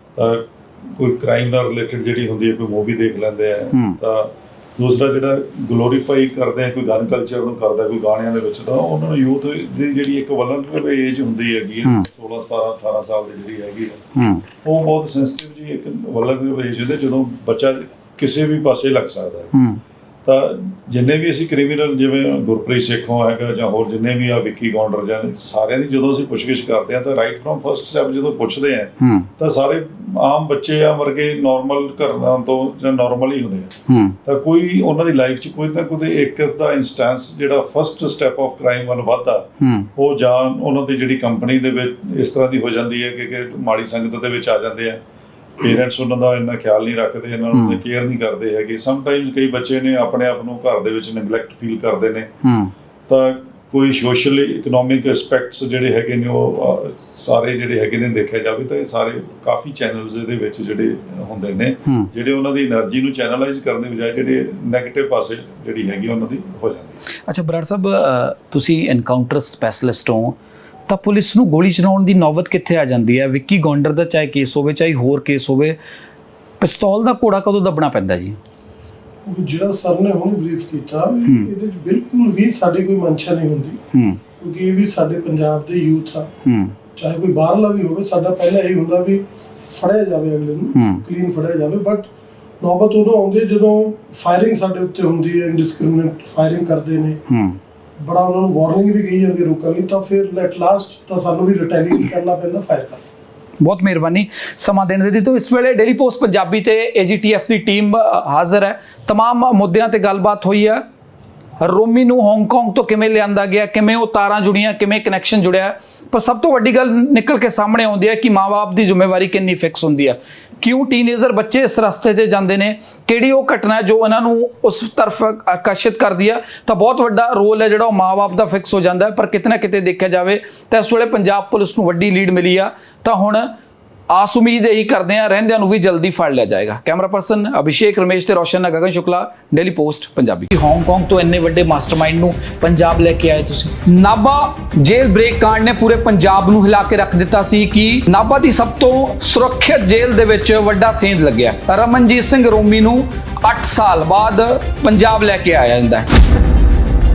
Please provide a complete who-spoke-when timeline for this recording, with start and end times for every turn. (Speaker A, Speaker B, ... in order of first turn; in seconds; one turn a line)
Speaker A: 0.2-14.1
Speaker B: 3.7-4.0
Speaker B: 14.2-14.4
Speaker A: 14.6-19.5
Speaker B: 19.5-19.8
Speaker A: 20.2-33.7
Speaker B: 29.0-29.3
Speaker B: 33.9-34.2
Speaker A: 34.2-45.0
Speaker B: 39.6-39.9
Speaker A: 45.6-52.3
Speaker B: 47.5-47.8
Speaker B: 52.4-52.7
Speaker A: 53.1-67.0
Speaker B: 67.3-70.4
Speaker B: 70.9-75.8
Speaker B: 76.6-78.4
Speaker C: 79.3-83.8
Speaker B: 81.3-81.5
Speaker B: 83.9-84.2
Speaker C: 84.4-86.3
Speaker B: 86.5-86.8
Speaker C: 87.0-92.1
Speaker B: 90.7-91.0
Speaker C: 92.6-97.2
Speaker B: 97.3-97.6
Speaker C: 98.0-103.0
Speaker B: 103.6-110.8
Speaker B: 111.6-133.5
Speaker B: 134.1-156.1